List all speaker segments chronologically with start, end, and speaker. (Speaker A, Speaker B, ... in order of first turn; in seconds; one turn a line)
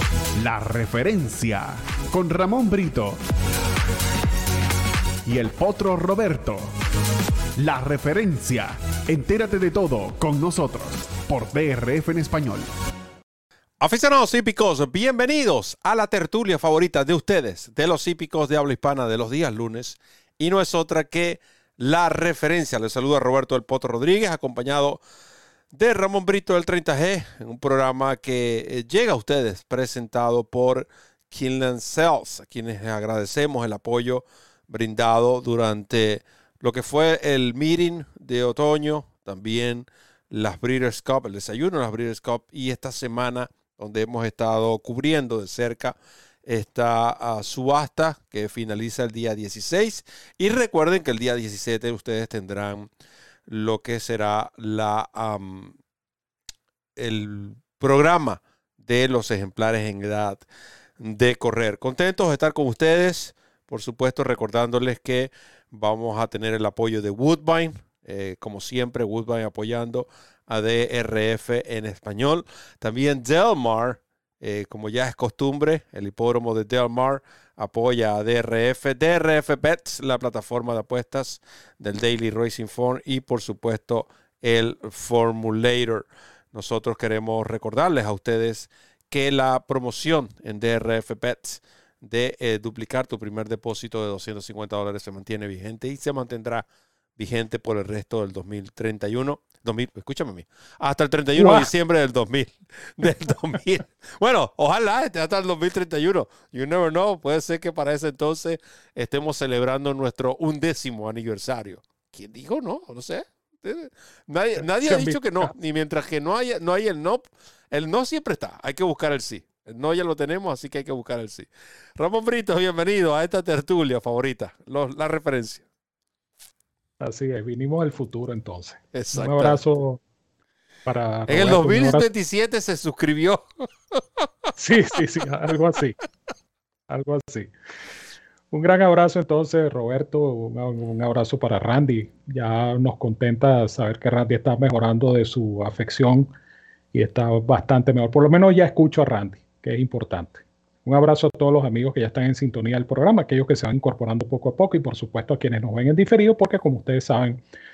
Speaker A: 0.4-3.2
Speaker A: 5.2-6.7
Speaker A: 7.6-12.7
Speaker B: 13.8-25.0
Speaker B: 25.7-52.9
Speaker B: 53.5-55.7
Speaker B: 57.0-60.4
Speaker B: 61.0-125.6
Speaker C: 101.3-101.7
Speaker C: 114.8-115.5
Speaker C: 127.0-130.0
Speaker B: 128.9-129.6
Speaker C: 130.8-132.1
Speaker B: 131.3-134.2
Speaker C: 134.6-136.0
Speaker C: 136.9-137.5
Speaker C: 138.5-146.3
Speaker C: 146.9-157.4